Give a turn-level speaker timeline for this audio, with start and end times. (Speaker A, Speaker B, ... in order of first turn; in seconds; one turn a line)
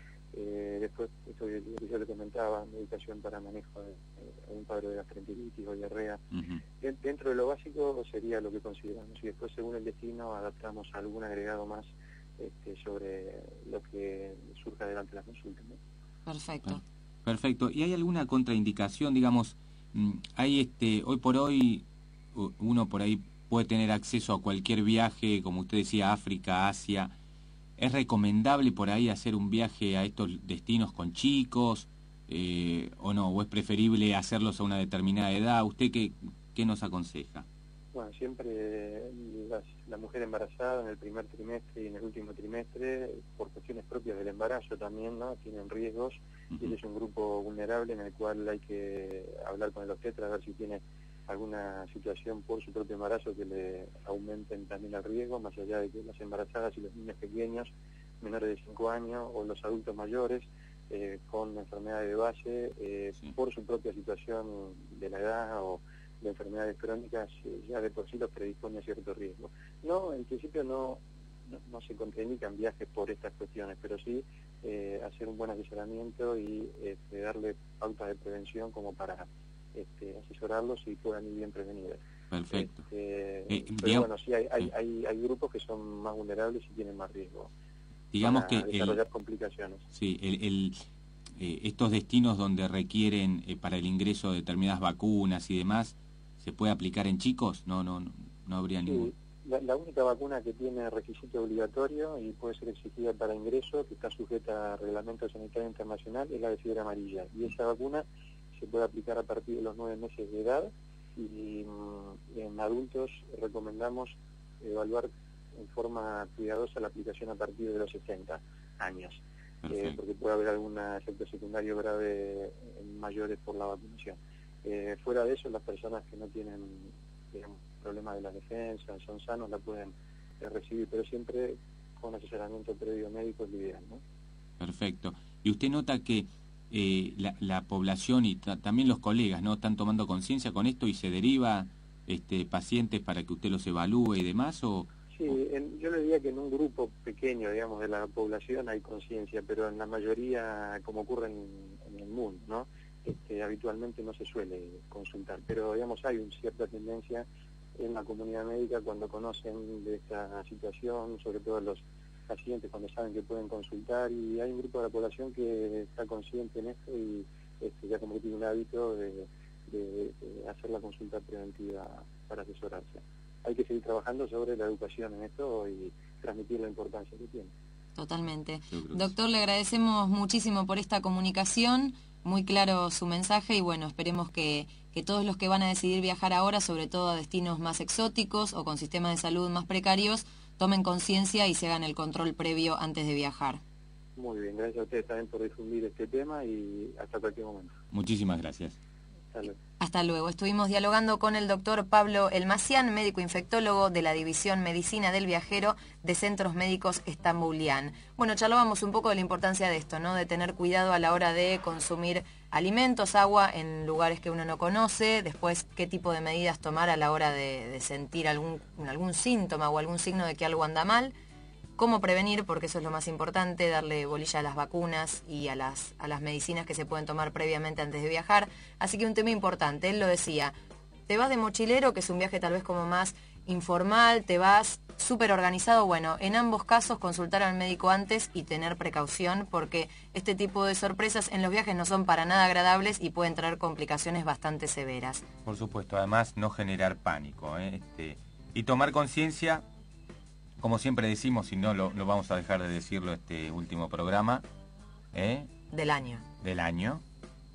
Speaker A: 0.3-6.2
Speaker B: 6.3-6.6
Speaker A: 6.8-15.8
Speaker C: 16.3-16.8
Speaker B: 16.7-27.1
Speaker B: 27.8-37.5
Speaker A: 37.9-87.5
Speaker B: 82.3-82.8
Speaker B: 83.5-84.1
Speaker B: 88.1-89.0
Speaker A: 88.2-89.8
Speaker B: 89.9-90.8
Speaker B: 91.4-99.1
Speaker A: 98.8-134.0
Speaker B: 119.6-120.0
Speaker B: 134.6-145.3
Speaker A: 145.1-157.3
Speaker A: 157.8-177.5
Speaker C: 178.0-193.6
Speaker B: 178.7-179.1
Speaker A: 194.2-197.7
Speaker B: 197.9-198.8
Speaker A: 199.3-199.6
Speaker C: 199.8-221.1
Speaker C: 221.8-230.5
Speaker C: 231.1-245.2
Speaker B: 245.4-249.6
Speaker B: 250.6-254.4
Speaker B: 255.1-255.5
Speaker C: 255.7-256.2
Speaker B: 256.4-257.0